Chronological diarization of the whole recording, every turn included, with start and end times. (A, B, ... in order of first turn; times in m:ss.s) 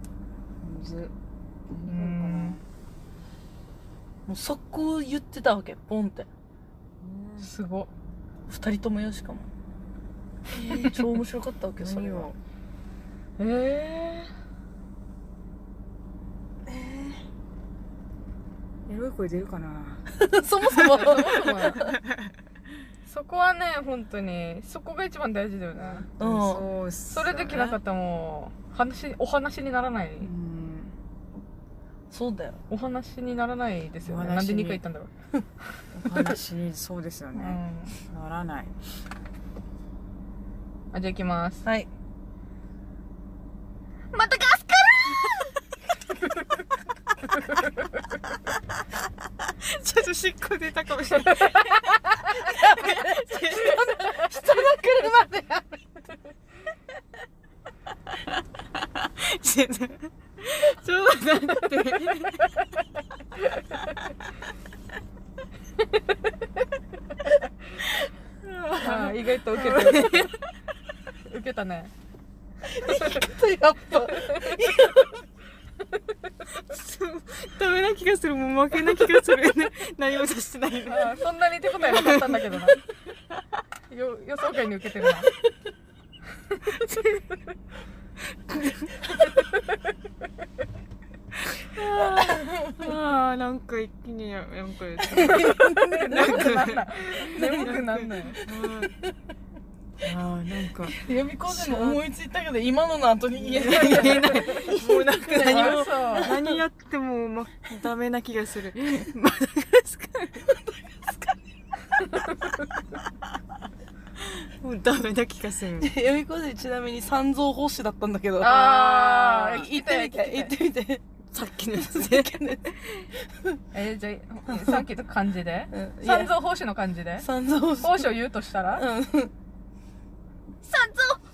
0:00.6-0:01.1 A
0:01.7-0:02.6 A
0:01.8-0:02.6 B
0:04.3-0:06.3 C
0:07.0-0:07.5 A
0:07.4-0:07.9 B
0:08.5-0:09.5 C
0:10.5-0:11.0 A
0:10.6-0:12.3 C
0:11.8-0:12.4 A
0:13.4-0:14.3 B
0:16.7-0:17.2 A
0:18.9-0:20.0 A
0:20.1-0:22.0 C
0:20.8-0:22.0 B
0:23.0-0:26.1 B
0:25.8-0:27.8 A
0:26.2-0:26.6 C
0:27.1-0:30.3 B
0:30.2-0:30.9 A
0:32.1-0:32.6 C
0:32.7-0:35.1 B
0:34.0-0:34.8 A
0:35.8-0:36.4 B
0:35.9-0:38.7 A
0:37.3-0:38.0 B
0:40.9-0:41.6 B
0:41.6-0:41.9 C
0:44.1-0:45.4 B
0:49.5-0:53.9 A
0:52.3-0:55.8 C
0:58.2-1:02.6 A
1:08.4-1:10.4 A
1:08.8-1:10.3 B
1:11.3-1:11.9 B
1:12.7-1:15.2 C
1:16.5-1:21.2 A
1:20.8-1:22.8 B
1:21.8-1:22.7 A
1:23.9-1:25.3 B
1:26.5-1:27.0 B
1:26.8-1:27.1 A
1:31.5-1:38.9 A
1:32.2-1:32.8 C
1:35.1-1:36.6 C
1:35.3-1:38.4 B
1:37.2-1:38.4 C
1:40.0-1:42.0 A
1:40.8-1:46.6 C
1:43.4-1:50.4 A
1:43.6-1:44.7 B
1:45.3-1:46.4 B
1:50.4-1:51.4 C
1:54.2-1:55.9 A
1:55.8-2:01.0 C
1:58.4-2:00.5 B
2:01.3-2:02.4 A
2:01.7-2:02.8 C
2:03.7-2:07.3 B
2:04.5-2:04.8 C
2:05.7-2:06.3 C
2:07.2-2:08.1 C
2:07.8-2:08.8 B
2:08.7-2:09.3 C
2:10.7-2:11.2 C